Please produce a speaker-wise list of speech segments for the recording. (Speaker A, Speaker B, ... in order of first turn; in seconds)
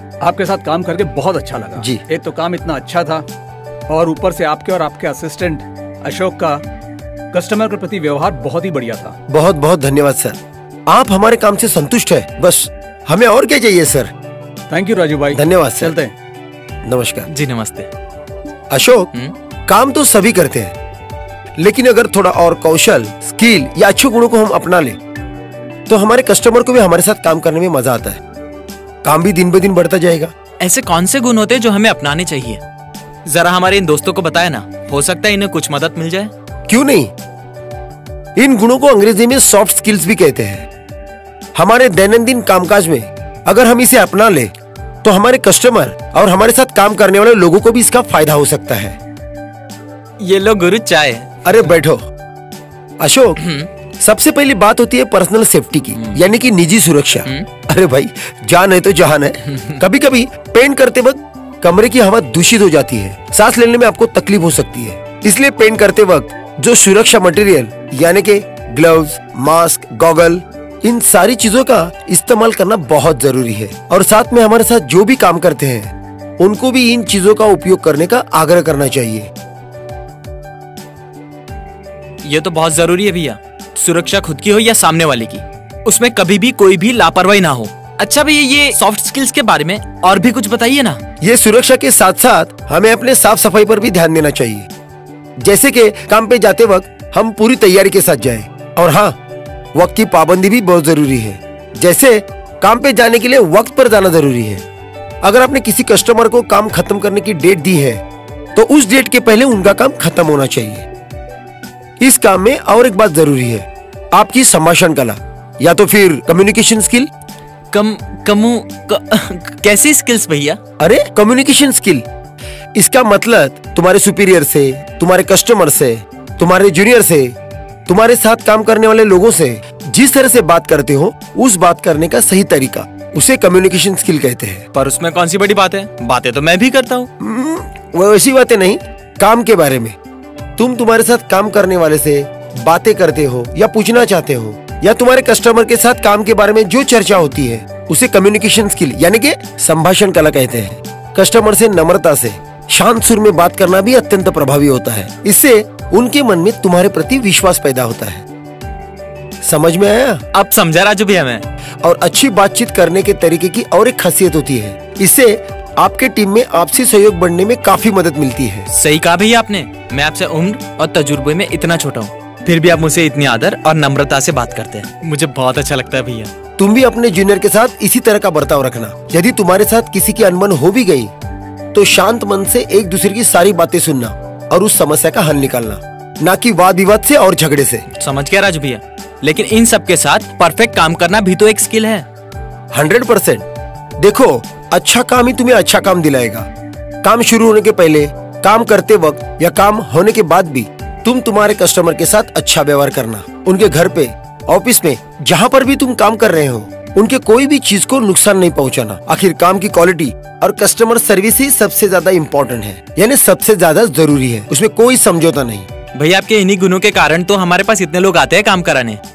Speaker A: 0.2-3.2, 3.9-6.6, 7.3-9.1, 14.7-16.1
Speaker B: 1.8-2.0, 9.3-14.1, 15.3-15.9, 16.8-17.3, 18.7-19.1, 19.7-20.7, 21.6-25.0, 25.9-28.2, 29.0-30.3, 36.7-37.1, 38.4-40.7, 41.5-44.5, 45.0-49.0, 51.5-52.1, 53.0-53.5, 54.0-79.3, 91.2-94.7, 95.4-99.2, 99.8-104.6, 105.2-108.0, 108.5-110.9, 112.0-117.1, 120.8-122.0, 122.8-127.3, 127.9-134.7, 137.2-139.9, 140.6-158.2, 159.4-160.2, 161.8-168.7, 176.6-181.1, 181.7-187.8, 192.7-193.4, 194.0-196.5, 197.0-215.7
Speaker C: 17.3-17.9, 30.6-32.6, 33.2-36.3, 50.2-51.7, 53.4-53.7, 82.2-91.0, 117.7-120.6, 134.7-137.1, 160.3-161.4, 168.7-176.3, 187.9-192.1, 215.9-219.0